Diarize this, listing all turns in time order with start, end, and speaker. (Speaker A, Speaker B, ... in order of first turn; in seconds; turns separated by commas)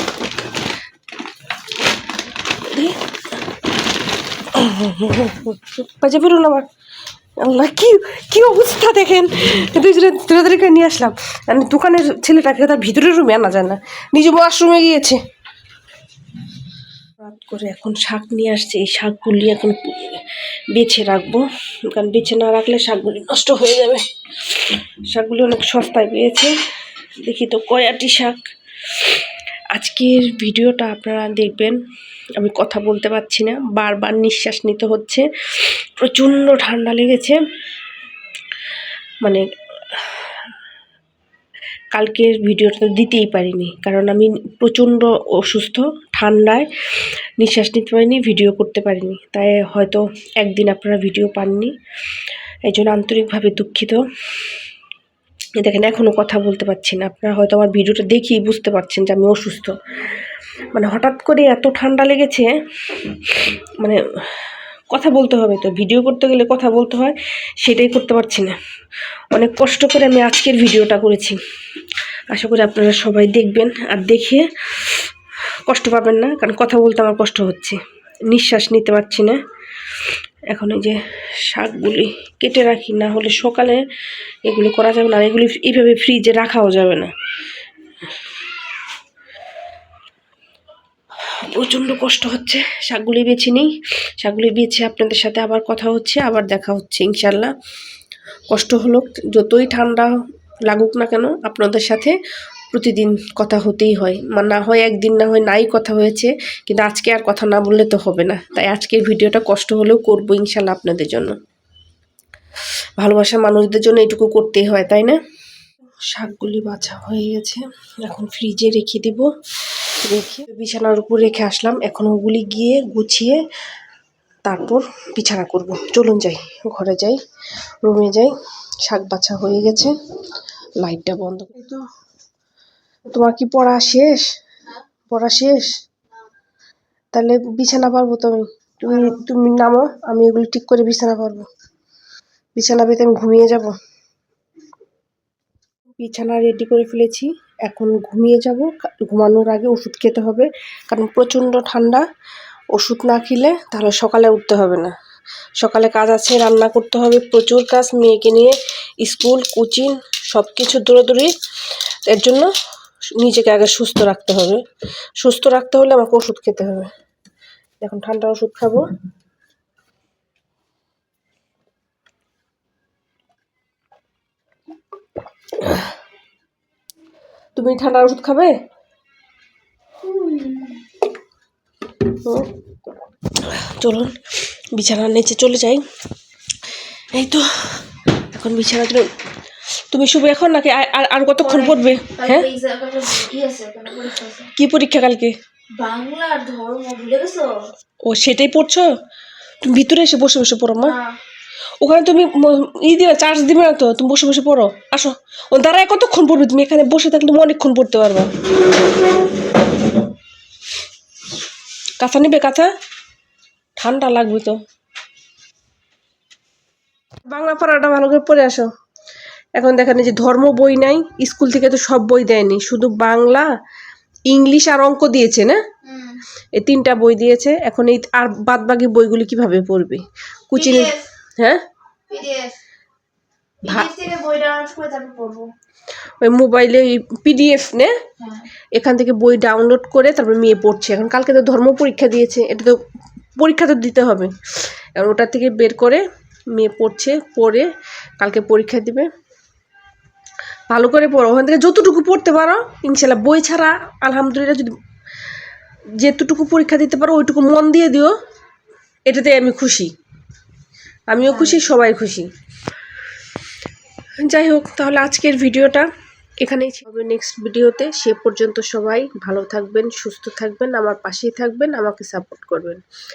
Speaker A: 2.6-3.0, Speaker A: 4.5-6.7, Speaker A: 7.4-15.2, Speaker A: 17.2-26.6, Speaker A: 27.2-28.4, Speaker A: 28.9-29.2, Speaker A: 29.7-31.8, Speaker A: 32.4-37.4, Speaker A: 39.2-40.3, Speaker A: 41.9-51.7, Speaker A: 52.7-54.0, Speaker A: 55.6-59.8, Speaker A: 60.7-62.5, Speaker A: 63.0-64.0, Speaker A: 64.9-68.5, Speaker A: 69.3-71.4, Speaker A: 72.3-75.0, Speaker A: 75.7-79.4, Speaker A: 80.5-83.8, Speaker A: 84.5-87.1, Speaker A: 91.3-97.5, Speaker A: 98.5-100.2, Speaker A: 100.7-102.2, Speaker A: 102.7-111.4, Speaker A: 113.0-115.2, Speaker A: 116.1-119.3, Speaker A: 120.0-123.4, Speaker A: 124.5-127.2, Speaker A: 127.8-128.3, Speaker A: 128.8-129.9, Speaker A: 130.8-131.8, Speaker A: 133.1-134.3, Speaker A: 135.1-135.7, Speaker A: 137.1-141.5, Speaker A: 142.6-143.7, Speaker A: 146.0-152.1, Speaker A: 152.7-154.9, Speaker A: 155.6-161.3, Speaker A: 162.1-162.5, Speaker A: 163.2-164.6, Speaker A: 165.2-166.9, Speaker A: 167.8-168.8, Speaker A: 177.6-178.5, Speaker B: 180.1-180.8, Speaker A: 183.4-184.2, Speaker A: 184.7-185.8, Speaker A: 187.1-189.1, Speaker A: 189.9-192.5, Speaker B: 191.4-194.5, Speaker A: 194.6-195.3, Speaker B: 195.8-197.6, Speaker A: 198.1-198.9, Speaker A: 199.6-201.0, Speaker B: 200.8-201.2, Speaker A: 201.8-208.3, Speaker A: 212.0-212.7, Speaker A: 213.8-214.6, Speaker A: 217.3-218.7, Speaker A: 219.6-223.5, Speaker A: 224.3-225.6, Speaker B: 225.8-226.2, Speaker A: 226.6-231.6, Speaker B: 230.6-231.1, Speaker B: 232.1-232.6, Speaker B: 233.6-235.5, Speaker A: 236.2-237.9, Speaker B: 238.2-238.5, Speaker A: 238.8-242.8, Speaker A: 243.4-244.3, Speaker A: 245.0-247.7, Speaker A: 248.2-249.1, Speaker A: 250.7-254.7, Speaker A: 256.0-258.1, Speaker A: 259.1-259.9, Speaker A: 261.1-262.3, Speaker B: 261.3-261.6, Speaker A: 264.2-265.9, Speaker A: 266.4-272.8